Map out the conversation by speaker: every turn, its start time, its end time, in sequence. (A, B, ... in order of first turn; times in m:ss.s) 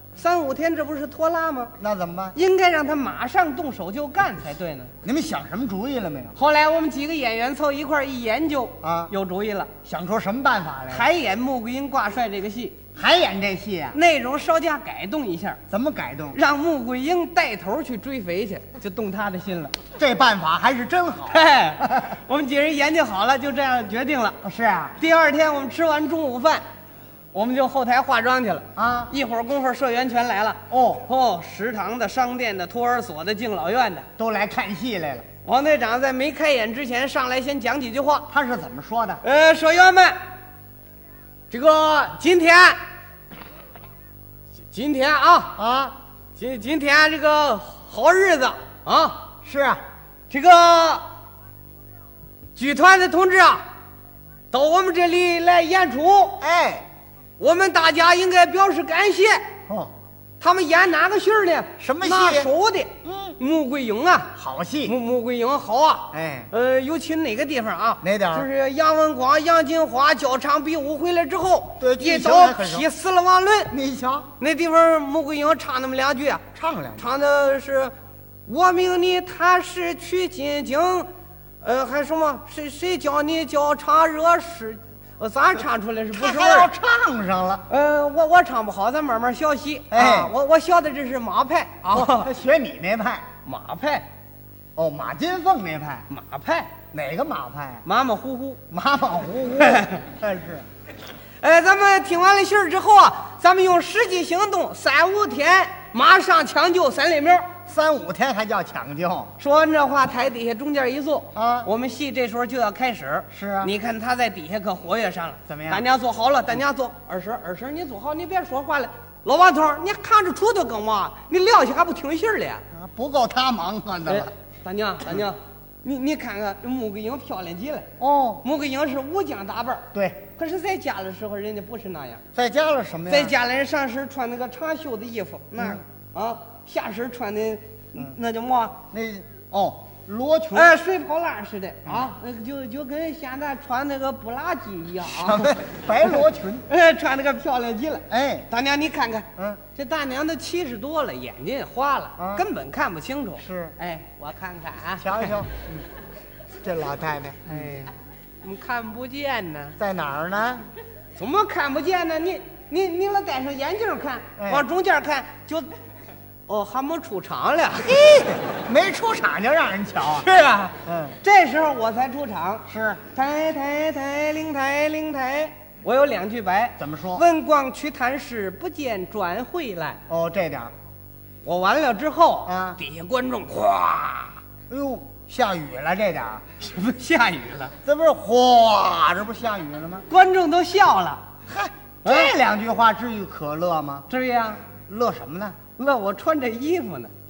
0:00.2-0:01.7 A
0:01.8-0:02.4 B
0:02.4-0:04.9 A
0:05.0-0:06.4 B
0:06.4-0:09.7 A
0:08.8-0:09.1 B
0:09.8-0:11.1 B
0:10.9-0:12.8 A
0:13.0-0:14.0 B
0:13.9-0:15.6 A
0:15.7-0:16.4 B
0:16.3-0:19.8 A
0:20.0-0:22.0 B
0:21.3-0:24.4 A
0:24.4-0:25.0 B
0:25.0-0:26.6 A
0:27.3-0:34.1 A
0:28.8-0:29.1 B
0:30.7-0:31.0 B
0:34.2-0:35.2 B
0:35.4-0:38.3 A
0:38.3-0:39.2 B
0:39.2-0:40.2 A
0:41.5-0:42.8 A
0:44.7-0:45.6 A
0:45.6-0:46.0 B
0:46.4-0:49.3 A
0:49.4-0:49.8 B
0:50.3-0:51.1 A
0:52.6-0:53.7 A
0:54.5-0:56.4 A
0:56.4-0:56.9 B
0:57.4-0:59.5 A
0:59.7-0:59.9 B
1:00.4-1:13.7 A
1:01.8-1:02.5 B
1:03.0-1:03.4 B
1:04.4-1:05.0 B
1:06.1-1:06.5 B
1:08.0-1:08.5 B
1:11.8-1:12.9 B
1:13.7-1:14.3 B
1:14.4-1:16.4 A
1:16.6-1:17.1 B
1:17.0-1:17.9 A
1:18.5-1:21.1 A
1:21.6-1:26.7 A
1:26.1-1:27.6 B
1:27.7-1:32.3 A
1:29.9-1:30.3 B
1:31.9-1:33.2 B
1:33.4-1:34.1 A
1:34.8-1:36.1 B
1:36.1-1:36.7 A
1:36.9-1:37.9 B
1:37.8-1:38.6 A
1:38.7-1:40.7 B
1:39.6-1:40.0 A
1:41.4-1:47.5 A
1:47.7-1:49.3 B
1:49.4-2:02.6 A
1:51.3-1:51.7 B
1:53.3-1:53.7 B
1:55.5-1:55.8 B
2:02.7-2:04.3 B
2:04.0-2:07.9 A
2:08.0-2:08.4 B
2:08.4-2:12.2 A
2:09.9-2:10.3 B
2:12.3-2:13.3 B
2:13.1-2:18.8 A
2:18.9-2:20.8 B
2:20.5-2:25.6 A
2:25.1-2:26.7 B
2:26.7-2:35.4 A
2:28.1-2:28.5 B
2:32.2-2:32.5 B
2:33.4-2:33.8 B
2:35.0-2:35.8 B
2:36.6-2:37.6 B
2:37.4-2:39.8 A
2:39.8-2:40.6 B
2:41.2-2:45.7 A
2:44.4-2:44.7 B
2:46.5-2:48.0 A
2:47.8-2:50.3 B
2:50.2-3:00.0 A
2:50.9-2:51.2 B
2:52.7-2:53.0 B
2:56.8-2:57.2 B
3:00.1-3:00.7 B
3:01.4-3:04.4 A
3:02.4-3:02.8 B
3:04.7-3:06.4 B
3:06.6-3:07.8 A
3:07.8-3:10.1 B
3:10.1-3:11.2 A
3:11.5-3:14.1 B
3:12.0-3:12.3 A
3:14.1-3:14.6 A
3:14.9-3:15.6 B
3:15.8-3:17.1 A